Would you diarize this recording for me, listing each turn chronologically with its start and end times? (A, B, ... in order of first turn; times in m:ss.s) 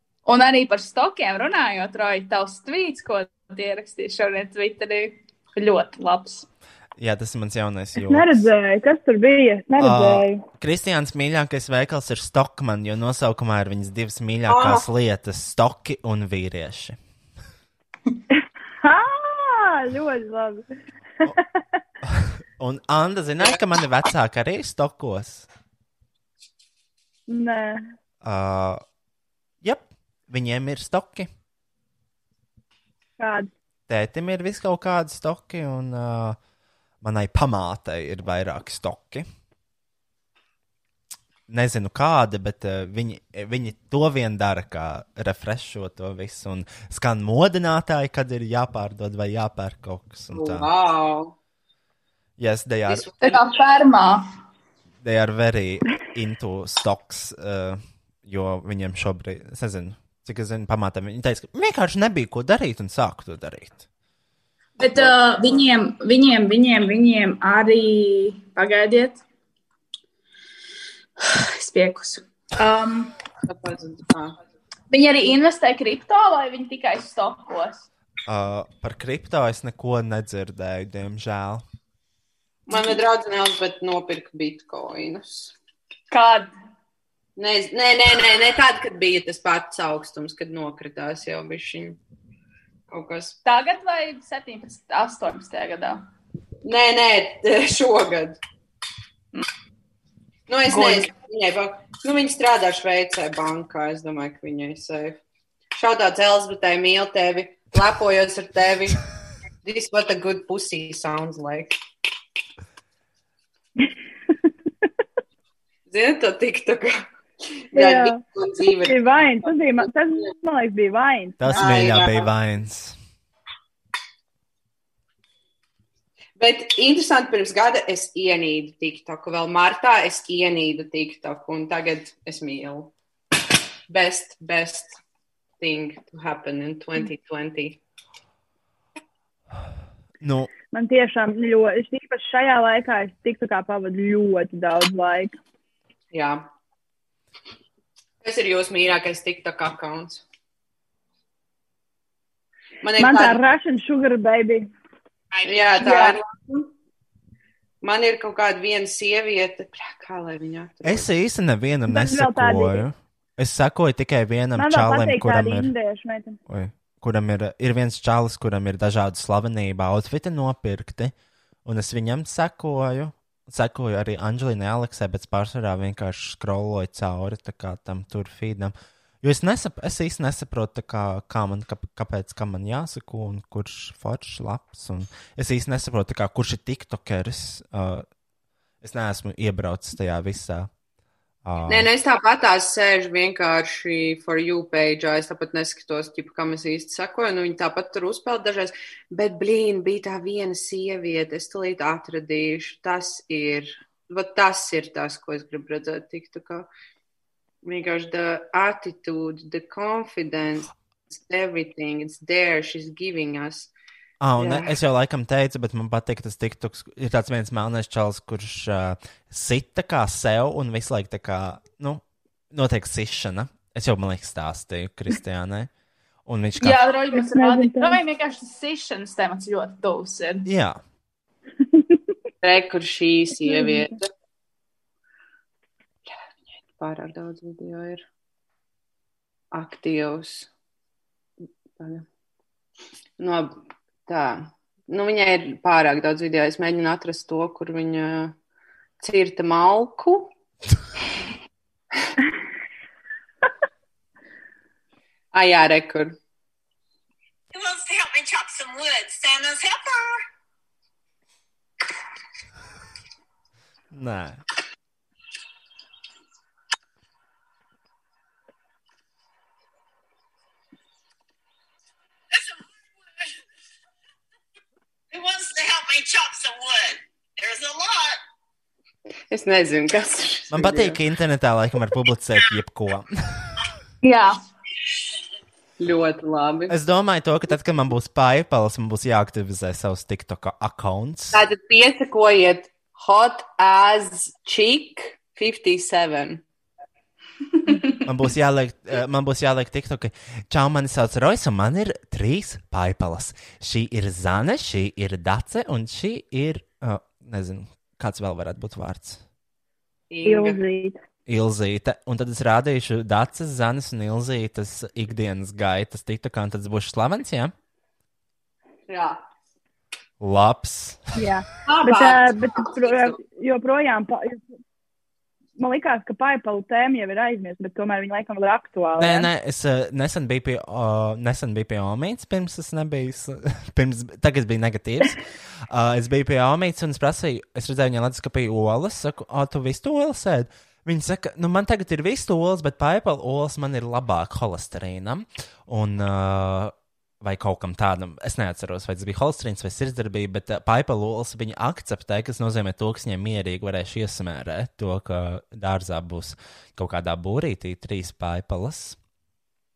0:00.2-0:06.5 A
0:07.0-0:08.4 B
0:08.0-0:10.4 C
0:09.8-0:17.0 B
0:14.5-0:14.8 D
0:18.8-0:20.6 C
0:22.0-0:25.5 B
0:27.3-0:27.8 C
0:28.2-0:28.8 B
0:29.6-0:31.3 B
0:33.2-0:33.5 C
0:33.9-0:36.4 B
0:37.0-0:39.2 B
0:41.5-0:50.7 B
0:50.3-0:51.3 D
0:52.4-0:53.1 B
0:52.9-0:53.4 D
0:53.2-0:54.2 A
0:55.0-1:03.9 B
1:04.8-1:09.2 A
1:11.2-1:13.1 A
1:13.4-1:14.3 D
1:14.9-1:17.9 A
1:18.3-1:21.6 B
1:22.7-1:25.5 D
1:26.1-1:26.5 A
1:27.4-1:32.0 D
1:32.9-1:33.4 D
1:33.4-1:36.0 A
1:36.6-1:38.4 D
1:40.5-1:45.2 D
1:40.7-1:41.1 A
1:45.7-1:49.0 D
1:49.6-1:51.8 D
1:55.9-1:57.1 D
1:57.6-1:59.0 D
1:57.7-1:58.2 C
1:58.8-2:01.5 C
2:01.4-2:03.0 B
2:01.5-2:02.3 D
2:06.4-2:12.9 D
2:13.9-2:15.0 D
2:15.6-2:17.8 D
2:20.2-2:20.5 B
2:20.7-2:25.4 C
2:26.1-2:26.5 D
2:28.2-2:30.2 D
2:32.8-2:33.4 D
2:33.0-2:34.7 C
2:35.4-2:36.7 D
2:35.8-2:36.1 C
2:37.8-2:41.1 D
2:40.8-2:45.7 B
2:41.9-2:42.8 C
2:44.6-2:46.4 C
2:46.5-2:51.1 B
2:51.6-3:08.0 B
3:08.8-3:10.7 B
3:11.4-3:11.9 B
3:11.7-3:26.7 D
3:27.6-3:33.7 D
3:34.2-3:45.7 B
3:34.4-3:34.8 D
3:46.2-3:46.8 B
3:46.6-3:50.5 A
3:47.1-3:48.0 C
3:50.4-3:50.8 B
3:52.4-3:54.1 D
3:53.5-3:53.8 C
3:56.8-3:58.0 D
3:59.5-4:00.5 D
4:01.8-4:02.0 D
4:03.2-4:08.3 D
4:09.0-4:10.3 D
4:15.3-4:16.2 D
4:17.5-4:20.2 E
4:23.9-4:24.4 B
4:35.1-4:38.2 E
4:39.3-4:41.0 D
4:40.5-4:43.6 B
4:44.0-4:44.4 A
4:45.8-4:46.7 D
4:46.7-4:51.4 B
4:51.3-4:56.4 D
4:58.0-5:09.2 B
5:10.1-5:10.6 D
5:10.2-5:11.0 C
5:11.3-5:17.5 B
5:18.9-5:19.2 D
5:20.2-5:21.2 B
5:21.2-5:24.4 C
5:21.6-5:23.2 D
5:25.6-5:29.3 C
5:29.0-5:59.0 B